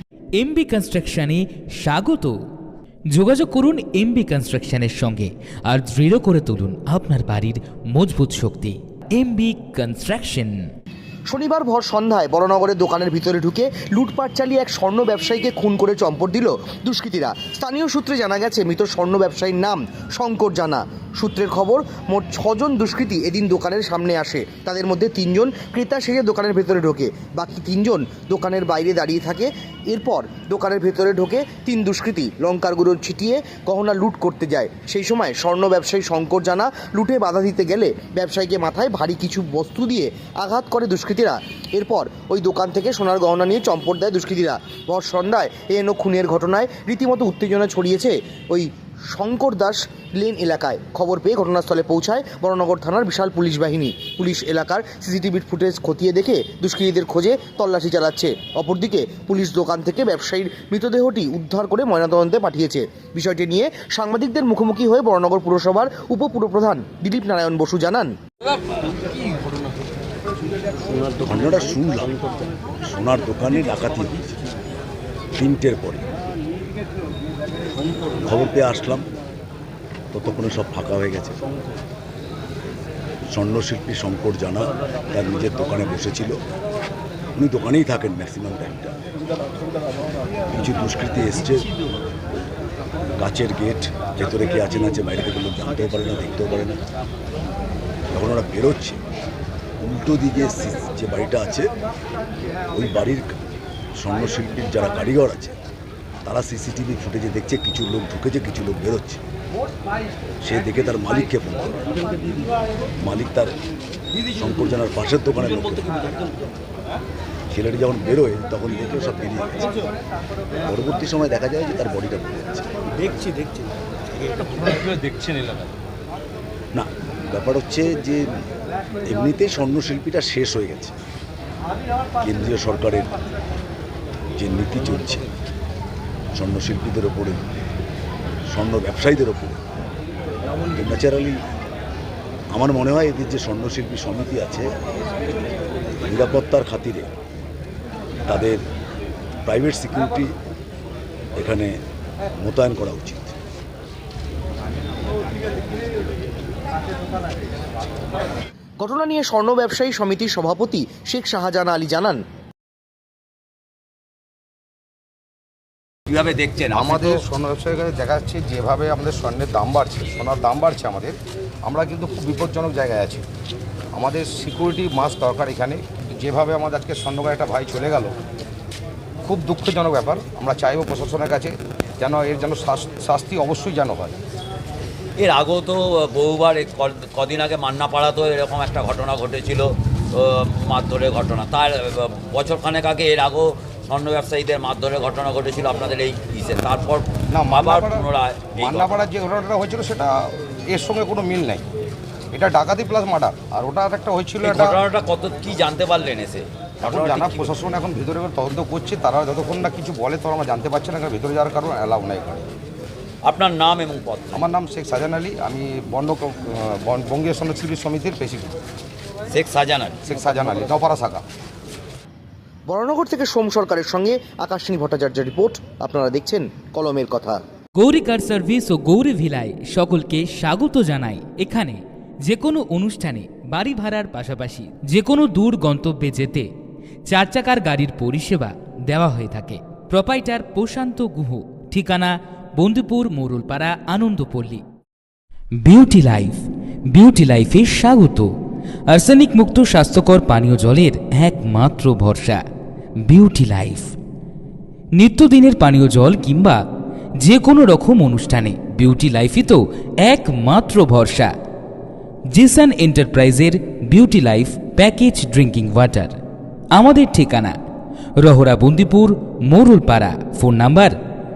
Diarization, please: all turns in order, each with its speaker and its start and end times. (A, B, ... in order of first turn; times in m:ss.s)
0:00.4-0:02.3 A
0:03.1-0:10.7 A
0:11.3-1:08.1 B
1:11.2-1:12.2 C
1:12.8-1:14.3 C
1:15.3-1:16.0 C
1:18.1-1:19.0 C
1:20.1-1:21.4 C
1:23.3-1:26.4 C
1:27.3-1:29.0 C
1:30.5-1:31.7 C
1:33.2-1:36.8 C
1:38.1-1:39.0 C
1:39.8-1:41.7 C
1:42.7-1:43.3 C
1:44.0-1:45.5 C
1:46.2-1:49.2 C
1:50.4-1:51.9 C
1:53.0-1:53.5 C
1:54.3-1:56.0 C
1:57.5-1:59.7 C
2:00.7-2:03.3 C
2:04.8-2:05.2 D
2:06.7-2:08.3 C
2:09.0-2:10.9 C
2:12.2-2:13.1 C
2:14.4-2:15.3 C
2:16.3-2:17.4 C
2:18.5-2:19.6 C
2:20.7-2:21.4 C
2:22.5-2:24.7 C
2:26.0-2:27.1 C
2:28.2-2:28.6 C
2:29.4-2:30.3 C
2:31.4-2:31.7 C
2:32.4-2:33.3 C
2:38.8-2:42.2 B
2:46.1-2:47.2 D
2:46.7-2:53.2 E
2:54.0-2:58.1 E
2:59.2-3:04.1 E
3:05.2-3:19.1 D
3:17.3-3:21.6 E
3:22.3-3:24.8 E
3:24.4-3:27.5 D
3:26.8-3:32.5 E
3:33.2-3:34.5 D
3:34.3-3:38.6 E
3:39.3-3:40.0 D
3:40.0-3:41.2 E
3:42.7-3:47.4 B
3:47.8-3:56.5 A
3:57.1-4:04.6 A
4:05.6-4:08.3 A
4:08.9-4:12.4 A
4:13.0-4:13.9 A
4:14.9-4:16.6 A
4:17.2-4:21.3 A
4:22.3-4:26.2 A
4:26.7-4:27.6 A
4:28.2-4:31.0 A